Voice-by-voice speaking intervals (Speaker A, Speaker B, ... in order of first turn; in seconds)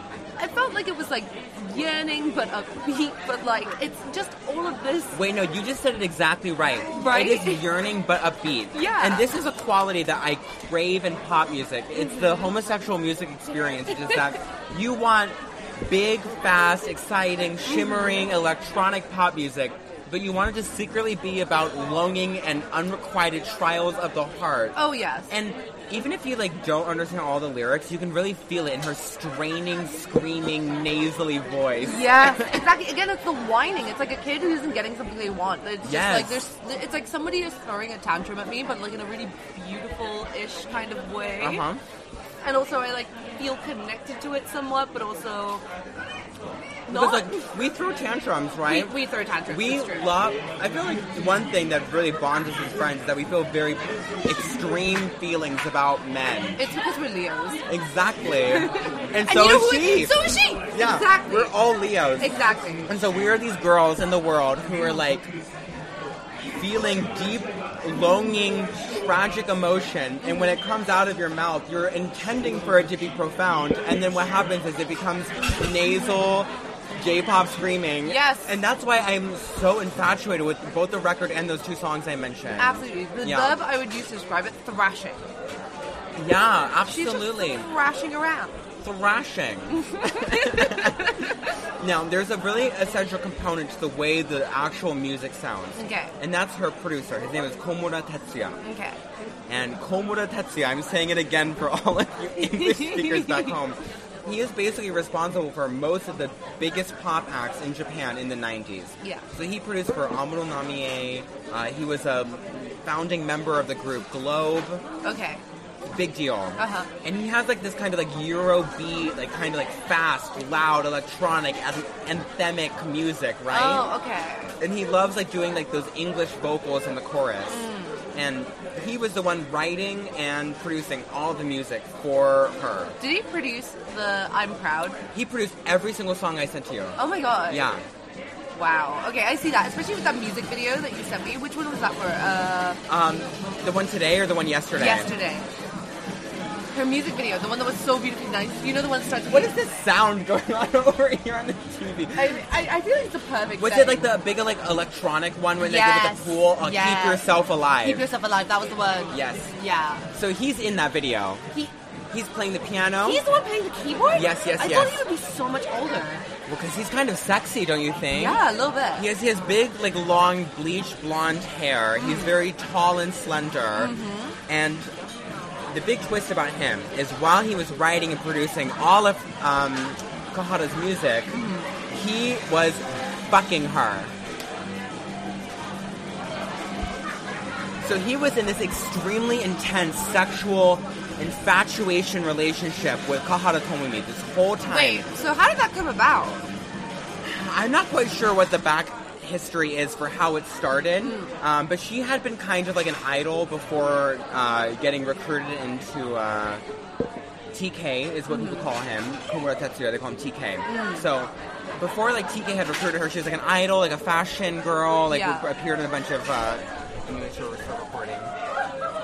Speaker A: 0.4-5.2, 6.9-7.6, 8.7-9.3, 17.7-18.2, 24.8-25.3, 31.8-41.6, 42.4-45.6, 46.9-47.5, 48.7-50.1, 56.6-57.6, 58.5-61.5, 62.2-62.9, 78.0-78.5, 82.5-85.3, 86.9-88.6, 89.7-91.5, 95.8-96.1, 98.6-99.0, 102.4-103.6, 109.0-109.3, 115.0-115.4, 116.6-116.9, 123.5-124.5, 127.5-128.1, 133.0-135.0, 137.0-137.7, 138.5-142.8, 144.8-145.5, 146.7-149.6, 152.2-154.1, 155.6-157.3, 157.8-160.1, 163.0-166.2, 168.1-169.1, 172.0-172.4, 173.8-174.4, 181.3-181.7, 194.7-196.5, 201.0-201.3, 208.3-208.7, 210.7-211.1, 215.1-215.5
Speaker B: 5.1-32.7, 35.8-36.4, 41.4-41.8, 46.9-49.0, 49.5-56.6, 57.7-62.3, 62.9-65.3, 66.6-83.6, 86.2-87.7, 88.8-91.2, 91.8-98.6, 99.5-114.8, 115.9-123.9, 124.6-133.0, 135.1-137.8, 142.9-145.1, 149.3-152.4, 153.6-158.1, 159.1-159.5, 160.1-161.4, 162.1-163.2, 164.2-165.0, 166.5-168.4, 169.0-173.9, 174.5-174.9, 175.7-181.3, 181.9-184.1, 187.8-195.1, 197.2-206.6, 207.5-218.3